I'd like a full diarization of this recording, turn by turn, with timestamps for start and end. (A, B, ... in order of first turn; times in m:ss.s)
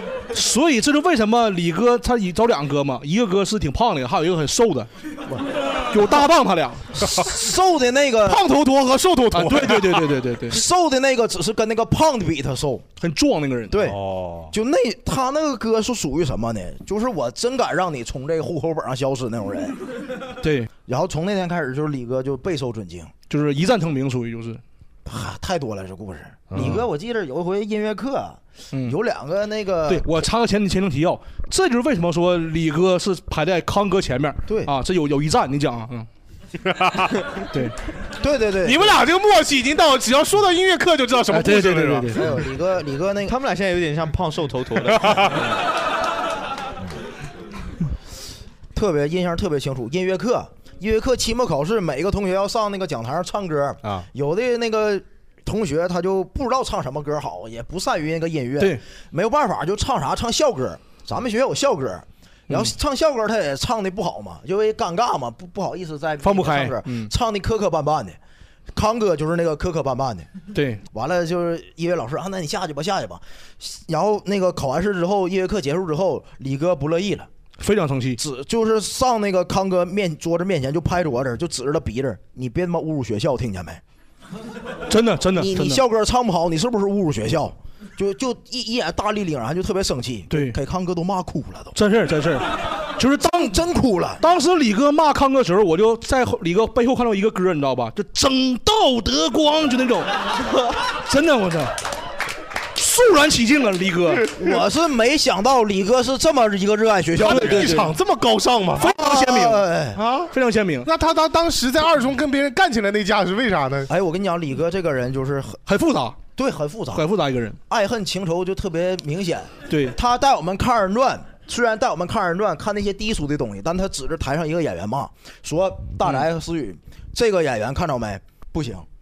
0:00.3-0:04.9 A
0:05.9-0:06.9 A
0:06.9-0:08.4 B
0:08.2-0:10.1 C
0:09.3-0:10.6 A
0:10.5-0:12.8 B
0:13.0-0:13.8 A
0:13.7-0:14.0 B
0:13.7-0:14.5 C
0:14.5-0:19.8 B
0:20.4-0:20.7 A
0:20.8-0:23.1 B
0:23.3-0:24.6 A
0:25.0-0:30.1 B
0:26.5-0:26.8 C
0:29.9-0:36.1 A
0:34.5-0:34.7 B
0:36.6-0:37.5 C
0:38.2-0:39.0 B
0:38.6-0:42.2 C
0:41.3-0:42.3 A
0:42.1-0:43.3 B
0:43.2-0:45.4 D
0:45.0-0:45.4 C
0:48.7-1:08.2 B
1:06.2-1:07.1 A
1:08.7-1:10.3 B
1:10.5-1:10.8 A
1:10.9-1:17.3 B
1:17.6-1:18.2 A
1:18.2-1:23.8 B
1:24.9-1:25.8 A
1:25.3-1:31.8 B
1:30.3-1:30.6 A
1:31.7-1:33.6 A
1:33.2-1:34.2 B
1:34.2-1:40.1 A
1:40.9-1:41.7 A
1:42.7-1:44.3 A
1:44.3-1:47.8 B
1:47.2-1:49.0 C
1:47.2-1:47.9 A
1:48.8-1:49.7 A
1:48.8-1:50.0 B
1:49.9-1:50.3 C
1:50.3-1:50.9 A
1:50.8-1:53.9 C
1:53.9-1:55.6 B
1:55.7-1:56.2 A
1:56.4-1:57.1 B
1:56.9-1:57.6 A
1:57.7-2:08.8 B
1:59.7-2:00.0 A